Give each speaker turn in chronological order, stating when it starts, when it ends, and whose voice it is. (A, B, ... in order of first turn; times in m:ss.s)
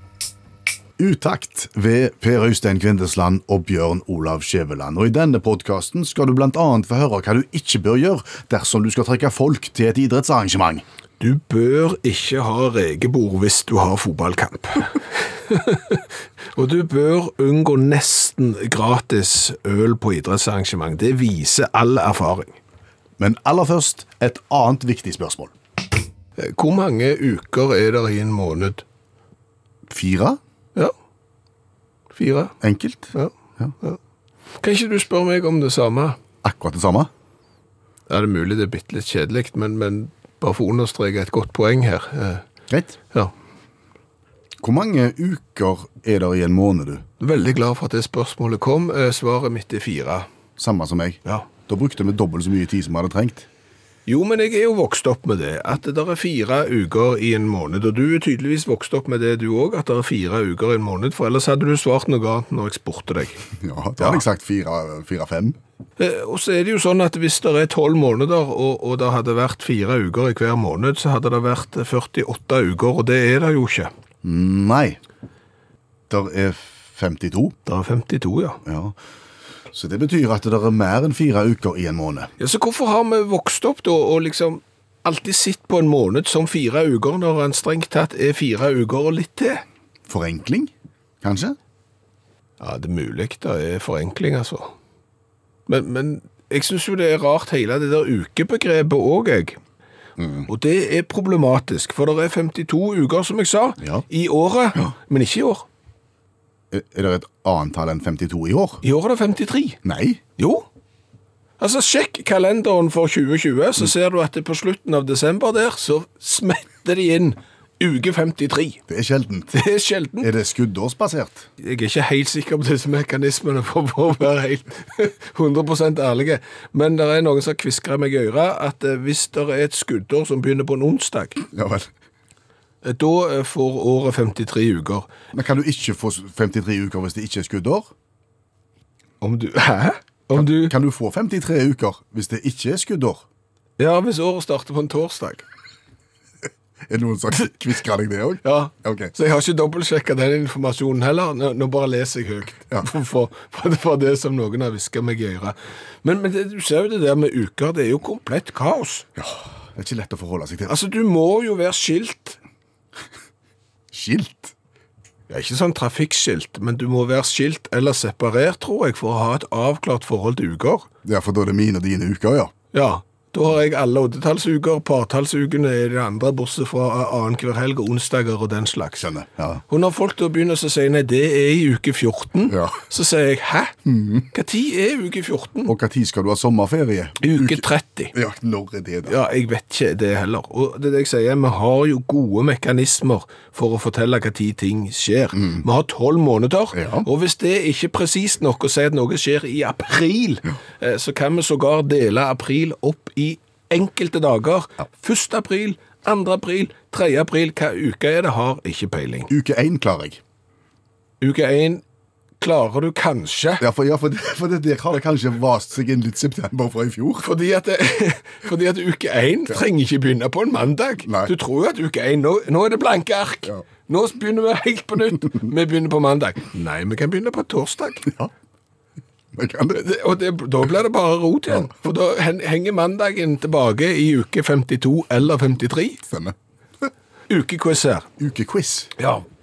0:01.0-0:10.8 A
0:11.2-0:22.6 B
0:23.2-0:25.5 A
0:26.4-0:28.8 B
0:29.9-0:30.4 A
0:32.2-0:32.6 B
0:32.6-0:33.7 A
0:33.1-0:34.0 B
0:34.6-0:36.2 B
0:36.4-0:37.1 A
0:38.1-0:42.4 B
0:42.7-0:43.0 A
0:44.6-0:47.1 A
0:47.2-0:50.3 B
0:50.6-0:53.5 A
0:54.1-1:03.4 B
1:03.6-1:05.6 A
1:06.0-1:13.9 B
1:14.2-1:15.0 A
1:16.1-1:17.6 A
1:17.7-1:18.6 B
1:18.6-1:19.0 A
1:19.7-1:22.3 A
1:22.4-1:29.6 B
1:30.1-1:31.6 A
1:32.6-1:34.7 B
1:35.7-1:39.6 B
1:40.2-1:40.5 A
1:40.5-1:45.6 B
1:46.7-1:48.8 A
1:48.8-1:49.8 B
1:49.8-1:50.2 A
1:50.4-1:50.6 B
1:51.6-1:58.8 B
1:58.9-1:59.5 A
1:59.5-2:00.3 B
2:00.2-2:01.5 A
2:01.6-2:11.4 B
2:11.5-2:11.9 A
2:12.8-2:15.1 B
2:15.3-2:17.9 A
2:19.2-2:20.7 B
2:20.3-2:23.2 A
2:23.8-2:25.4 B
2:26.9-2:29.1 A
2:28.4-2:39.1 B
2:39.2-2:40.7 A
2:40.7-2:42.4 B
2:43.9-2:44.5 A
2:45.3-2:50.9 B
2:51.0-2:52.5 A
2:52.7-2:59.1 B
2:59.0-2:59.6 A
2:59.7-3:03.8 B
3:02.5-3:02.8 A
3:03.8-3:04.3 A
3:04.3-3:05.7 B
3:05.7-3:07.6 A
3:07.2-3:08.2 B
3:08.1-3:09.2 A
3:09.1-3:29.3 B
3:16.7-3:17.1 A
3:29.3-3:30.2 A
3:31.2-3:31.8 B
3:32.4-3:33.6 B
3:33.6-3:37.3 A
3:37.2-3:48.1 B
3:41.0-3:41.3 A
3:49.3-3:49.8 A
3:49.8-3:56.0 B
3:56.1-3:56.4 A
3:57.3-3:58.1 B
3:58.2-3:58.9 A
3:59.0-3:59.2 B